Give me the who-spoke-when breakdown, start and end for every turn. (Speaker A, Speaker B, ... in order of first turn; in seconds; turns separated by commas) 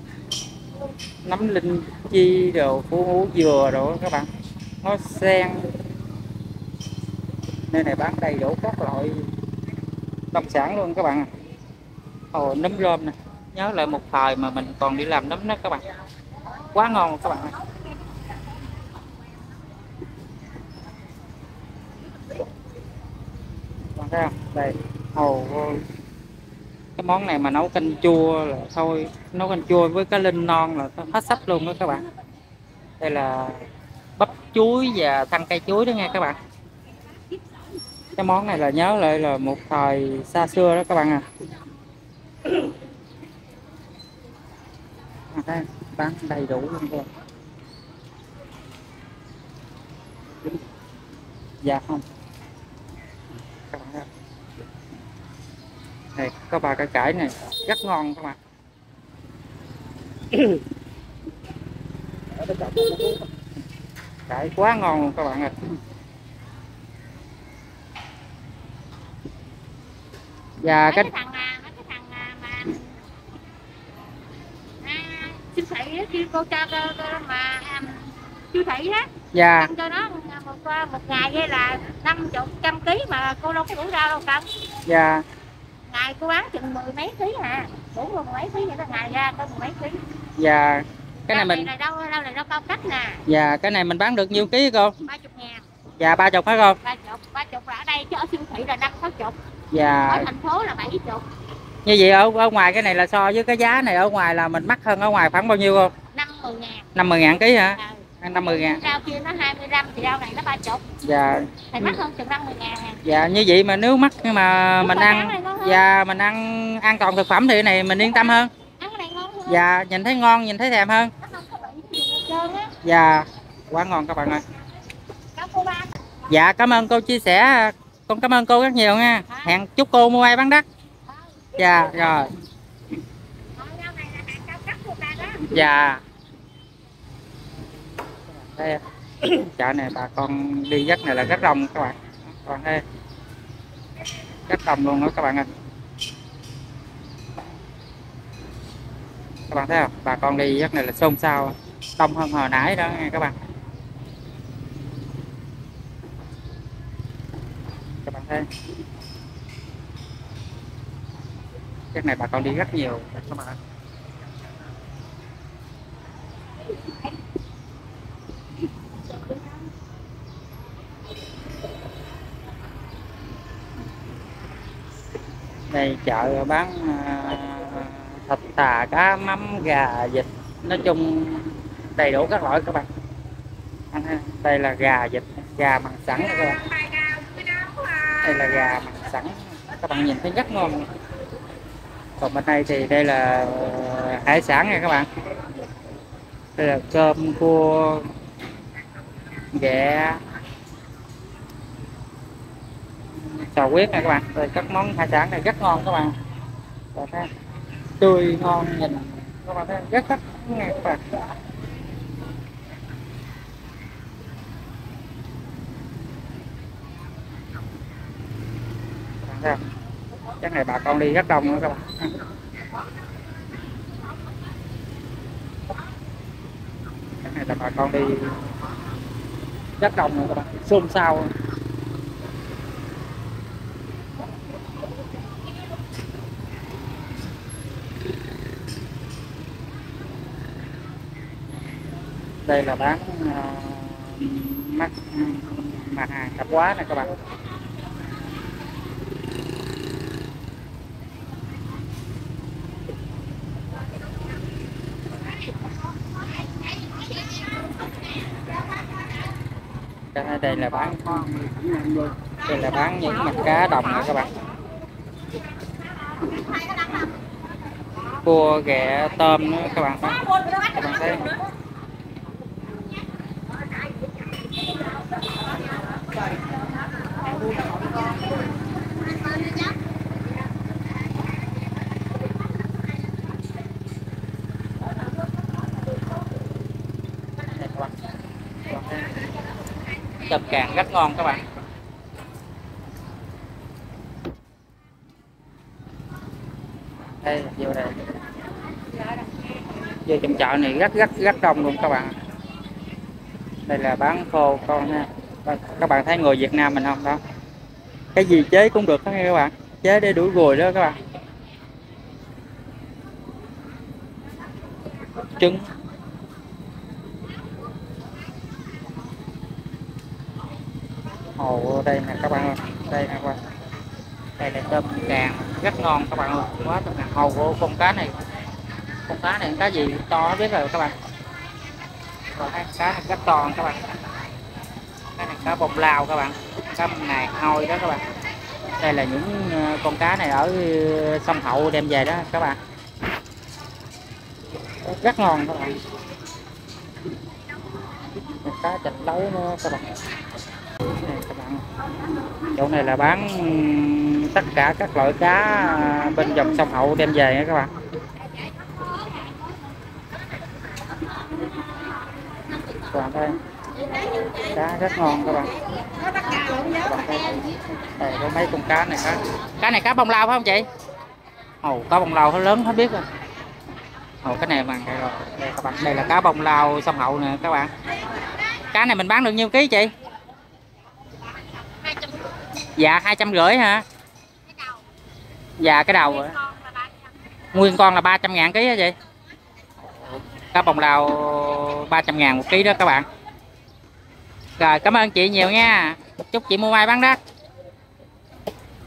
Speaker A: 1.2-4.3, Speaker A: 4.8-5.7, Speaker A: 7.7-9.2, Speaker A: 10.3-11.3, Speaker A: 12.3-15.8, Speaker A: 16.7-17.6, Speaker A: 23.9-25.8, Speaker A: 27.0-32.0, Speaker A: 33.0-33.6, Speaker A: 34.2-36.4, Speaker A: 38.1-41.2, Speaker A: 45.3-47.1, Speaker A: 51.6-52.0, Speaker A: 53.7-54.1, Speaker A: 56.1-58.4, Speaker A: 62.4-63.2, Speaker A: 64.3-65.5, Speaker A: 70.6-71.1, Speaker B: 70.9-72.9, Speaker B: 74.8-84.5, Speaker A: 79.3-79.7, Speaker A: 84.8-85.2, Speaker B: 85.8-90.0, Speaker A: 90.4-91.7, Speaker B: 91.3-93.2, Speaker A: 93.3-94.9, Speaker B: 95.0-95.7, Speaker A: 96.0-96.8, Speaker B: 96.8-99.4, Speaker A: 99.7-100.3, Speaker B: 100.1-101.2, Speaker A: 101.8-105.9, Speaker B: 106.1-106.9, Speaker A: 106.9-108.8, Speaker B: 107.6-110.8, Speaker A: 111.0-111.6, Speaker B: 111.7-113.0, Speaker A: 113.0-118.5, Speaker B: 114.8-115.8, Speaker B: 118.8-119.6, Speaker A: 119.5-121.1, Speaker B: 121.2-122.7, Speaker A: 122.8-124.4, Speaker B: 125.3-126.0, Speaker A: 126.3-130.7, Speaker B: 129.3-129.6, Speaker A: 131.6-132.3, Speaker B: 133.5-135.5, Speaker A: 135.4-136.0, Speaker A: 138.3-142.8, Speaker A: 144.5-145.5, Speaker A: 149.5-153.3, Speaker A: 158.0-158.5, Speaker A: 161.9-163.6, Speaker A: 175.7-182.9, Speaker A: 183.9-186.7, Speaker B: 186.7-188.2, Speaker A: 188.2-190.9, Speaker A: 192.2-195.1, Speaker A: 196.6-198.1, Speaker A: 199.5-200.2, Speaker A: 203.3-206.1, Speaker A: 206.9-207.3, Speaker A: 208.0-211.0, Speaker A: 219.2-219.6, Speaker A: 220.4-222.1, Speaker A: 227.2-228.4, Speaker A: 229.8-231.3, Speaker A: 242.5-247.1, Speaker B: 256.8-257.5, Speaker A: 260.1-264.3, Speaker B: 266.2-266.9, Speaker A: 268.2-271.4, Speaker A: 287.5-287.9, Speaker A: 288.7-289.1, Speaker A: 290.2-291.4, Speaker A: 297.2-298.1, Speaker A: 300.1-302.1, Speaker A: 303.7-307.2, Speaker A: 308.1-311.0, Speaker A: 315.4-315.7, Speaker A: 321.4-323.4, Speaker A: 324.4-328.2, Speaker A: 329.1-330.9, Speaker A: 332.3-333.9, Speaker A: 335.1-338.0, Speaker A: 338.7-342.6, Speaker A: 344.8-345.8, Speaker A: 348.4-349.9, Speaker A: 351.0-351.6, Speaker A: 352.5-357.7, Speaker A: 362.8-363.4, Speaker A: 364.4-365.5, Speaker A: 366.6-367.4, Speaker A: 367.9-370.7, Speaker A: 371.6-373.1, Speaker A: 374.2-377.7, Speaker A: 378.7-379.9, Speaker B: 381.8-382.3, Speaker A: 382.8-383.8, Speaker B: 384.5-384.8, Speaker A: 385.6-386.4, Speaker B: 386.2-387.0, Speaker A: 387.5-388.9, Speaker A: 390.3-393.1, Speaker A: 394.6-397.2